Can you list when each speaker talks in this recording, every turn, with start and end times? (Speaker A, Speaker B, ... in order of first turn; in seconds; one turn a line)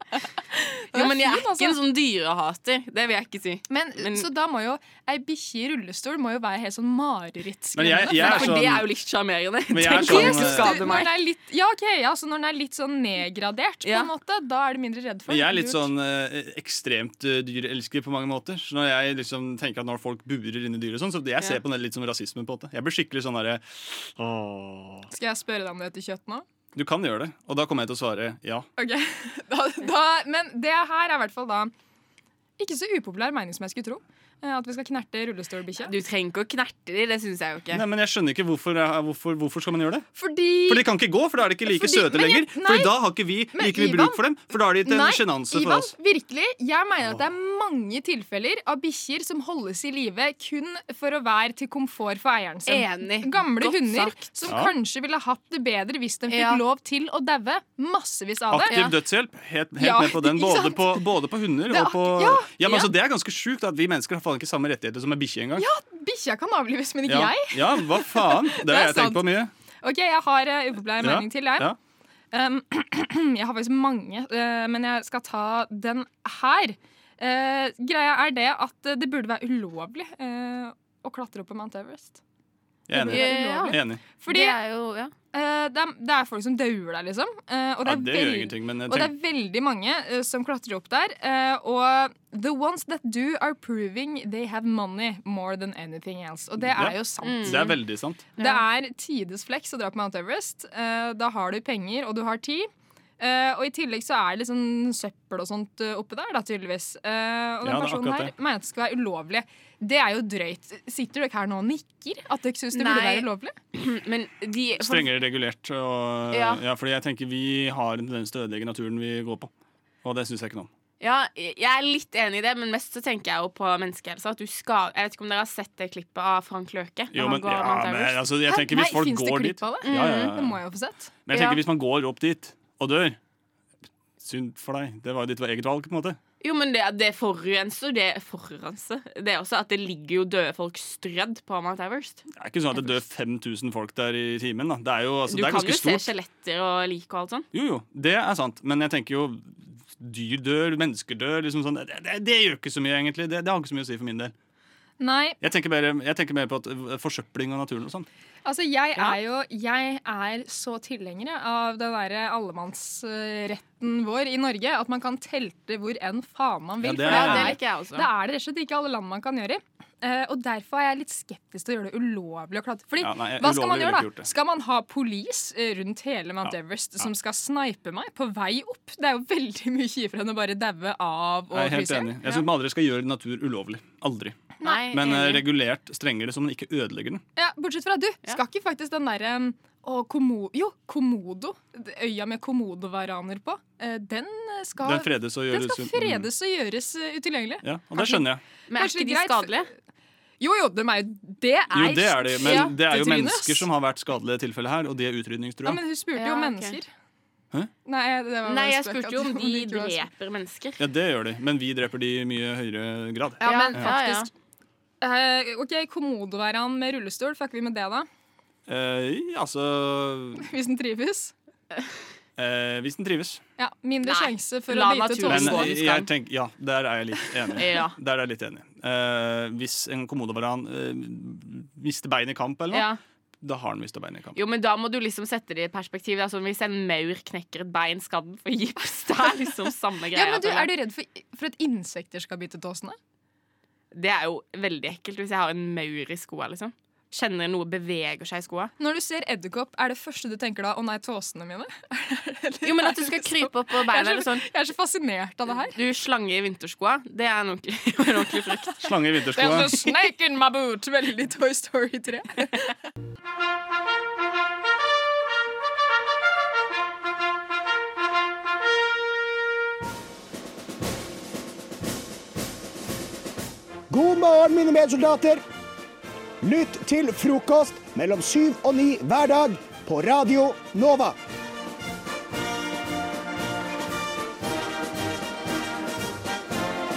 Speaker A: 0.6-1.8
Speaker B: 0.9-4.3
Speaker A: 3.7-8.6
Speaker C: 7.8-8.9
Speaker B: 8.1-11.2
Speaker C: 9.7-11.0
Speaker A: 9.9-15.9
Speaker B: 13.8-14.1
Speaker C: 15.3-25.1
Speaker A: 25.1-26.4
Speaker C: 26.8-28.7
Speaker A: 28.8-31.7
Speaker A: 32.6-35.9
Speaker B: 35.8-37.9
Speaker C: 37.7-40.1
Speaker A: 40.2-40.8
Speaker C: 40.7-45.9
Speaker A: 41.7-42.9
Speaker A: 43.5-44.2
Speaker A: 44.8-58.8
Speaker B: 52.7-54.5
Speaker C: 54.5-54.7
Speaker B: 56.3-56.6
Speaker C: 58.5-65.7
Speaker B: 58.6-58.9
Speaker A: 59.8-61.0
Speaker A: 61.7-62.6
Speaker A: 65.6-69.2
Speaker C: 67.1-69.5
Speaker A: 69.8-71.7
Speaker C: 71.0-71.8
Speaker A: 72.3-82.2
Speaker C: 82.9-84.0
Speaker A: 82.9-84.6
Speaker B: 83.1-85.1
Speaker A: 85.3-97.7
Speaker C: 87.8-89.1
Speaker C: 96.6-98.3
Speaker B: 97.2-97.8
Speaker B: 98.4-98.7
Speaker A: 98.4-113.5
Speaker C: 107.6-108.3
Speaker B: 112.7-115.1
Speaker C: 114.8-119.5
Speaker B: 116.3-116.6
Speaker C: 120.0-120.7
Speaker B: 121.0-128.2
Speaker C: 127.1-130.6
Speaker A: 128.5-131.2
Speaker B: 129.8-130.4
Speaker C: 131.3-133.2
Speaker B: 131.3-131.6
Speaker C: 134.2-136.2
Speaker B: 136.4-142.2
Speaker C: 142.3-146.1
Speaker B: 145.3-147.5
Speaker C: 147.5-154.3
Speaker A: 155.0-155.4
Speaker C: 155.4-158.1
Speaker A: 158.4-182.5
Speaker C: 166.8-167.6
Speaker B: 167.0-168.1
Speaker C: 173.0-174.3
Speaker C: 176.4-177.1
Speaker C: 181.5-184.4
Speaker B: 184.6-185.5
Speaker C: 184.9-187.2
Speaker A: 187.4-199.7
Speaker C: 194.8-196.3
Speaker C: 197.6-198.4
Speaker B: 198.7-199.7
Speaker A: 200.4-203.7
Speaker C: 201.7-205.8
Speaker B: 202.4-202.8
Speaker A: 205.7-206.9
Speaker B: 206.2-206.8
Speaker A: 207.9-210.1
Speaker B: 208.4-210.8
Speaker C: 210.8-214.0
Speaker B: 213.4-214.3
Speaker A: 213.4-214.3
Speaker A: 215.0-218.1
Speaker C: 218.7-220.5
Speaker A: 220.4-221.3
Speaker C: 222.4-223.4
Speaker A: 223.6-225.7
Speaker B: 224.0-226.1
Speaker C: 225.2-232.9
Speaker B: 227.6-227.9
Speaker B: 232.7-233.0
Speaker C: 233.4-234.4
Speaker B: 234.3-240.8
Speaker A: 240.1-243.0
Speaker B: 243.9-248.7
Speaker A: 248.8-255.8
Speaker B: 252.6-254.5
Speaker B: 255.5-258.8
Speaker C: 258.8-259.8
Speaker A: 259.4-262.7
Speaker D: 273.9-275.4
Speaker D: 276.4-281.2